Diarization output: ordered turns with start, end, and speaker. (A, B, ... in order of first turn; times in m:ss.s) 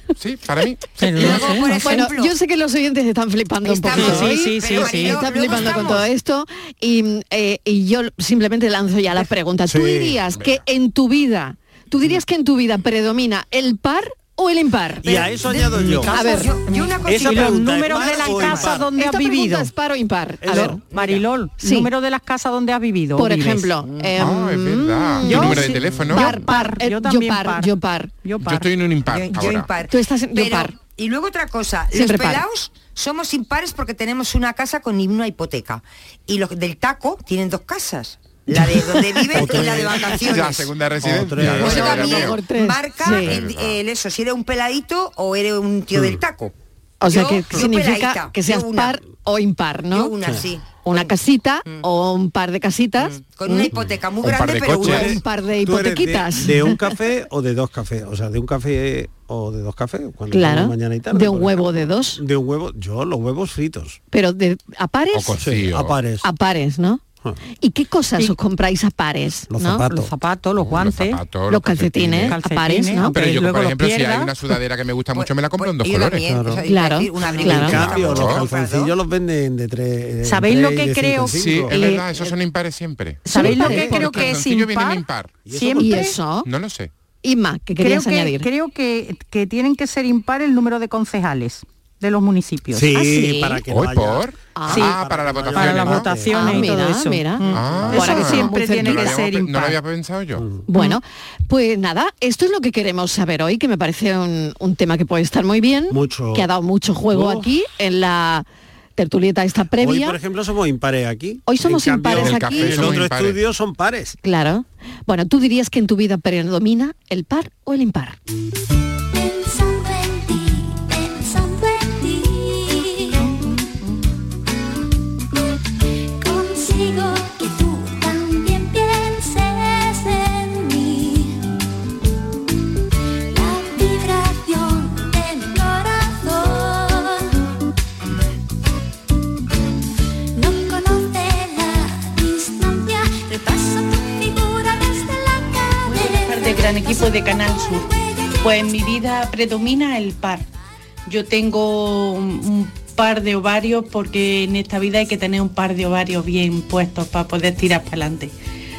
0:00.2-0:00.8 A
0:01.0-0:01.8 B
0:01.0-0:02.3 C
0:01.2-0:15.6 D
0:03.6-0:06.1 C
0:03.9-0:05.3 B
0:09.2-0:10.2 E
0:15.0-0:16.1 E
0:15.4-0:19.7 B
0:16.1-0:16.6 D
0:16.1-0:18.9 C
0:17.1-0:18.9 E
0:18.9-0:20.8 D
0:20.4-0:20.8 E
0:20.5-0:23.7 B
0:20.9-0:21.3 C
0:21.6-0:21.9 D
0:23.2-0:28.1 D
0:23.8-0:24.1 C
0:24.2-0:26.5 A
0:25.2-0:27.7 B
0:28.2-0:28.7 B
0:28.4-0:29.7 A
0:29.1-0:40.7 C
0:29.9-0:30.7 D
0:31.9-0:32.4 D
0:39.3-0:40.1 E
0:40.1-0:42.4 A
0:41.0-0:42.1 E
0:41.4-0:46.5 C
0:41.6-0:43.3 D
0:43.0-0:43.8 A
0:45.9-0:46.2 E
0:47.0-0:50.1 D
0:47.1-0:49.0 C
0:49.9-0:51.2 C
0:50.8-0:53.7 D
0:53.0-0:55.2 C
0:54.2-0:55.2 A
0:54.8-1:04.0 E
0:54.8-0:57.0 D
1:00.3-1:02.2 D
1:04.1-1:05.4 D
1:05.1-1:06.0 A
1:05.4-1:06.2 E
1:06.2-1:07.0 D
1:07.6-1:09.8 D
1:09.5-1:10.1 E
1:09.9-1:11.2 B
1:10.6-1:12.4 A
1:11.5-1:13.2 D
1:12.2-1:14.4 B
1:13.1-1:16.2 A
1:15.1-1:18.9 C
1:16.2-1:16.6 E
1:16.6-1:17.8 D
1:17.2-1:21.8 E
1:17.5-1:18.4 A
1:20.2-1:21.4 B
1:21.3-1:25.4 A
1:21.7-1:22.3 D
1:23.3-1:24.3 D
1:23.3-1:26.2 B
1:23.4-1:24.1 E
1:25.4-1:26.1 E
1:25.8-1:26.5 D
1:26.4-1:26.9 A
1:27.2-1:28.5 D
1:27.8-1:33.0 B
1:32.7-1:36.8 E
1:33.0-1:33.6 D
1:33.7-1:36.2 A
1:34.6-1:34.9 D
1:35.5-1:39.8 B
1:36.3-1:39.2 D
1:37.5-1:38.1 E
1:37.5-1:40.4 A
1:40.4-1:40.7 E
1:40.7-1:48.5 D
1:45.9-1:46.5 E
1:47.1-1:47.5 E
1:49.0-1:50.2 D
1:49.8-1:54.2 E
1:51.5-1:53.0 D
1:52.1-1:53.4 A
1:54.2-1:58.2 D
1:59.1-2:03.3 F
2:06.2-2:11.4 F
2:13.3-2:17.3 F
2:20.4-2:28.5 F
2:25.9-2:30.5 G
2:31.1-2:38.3 G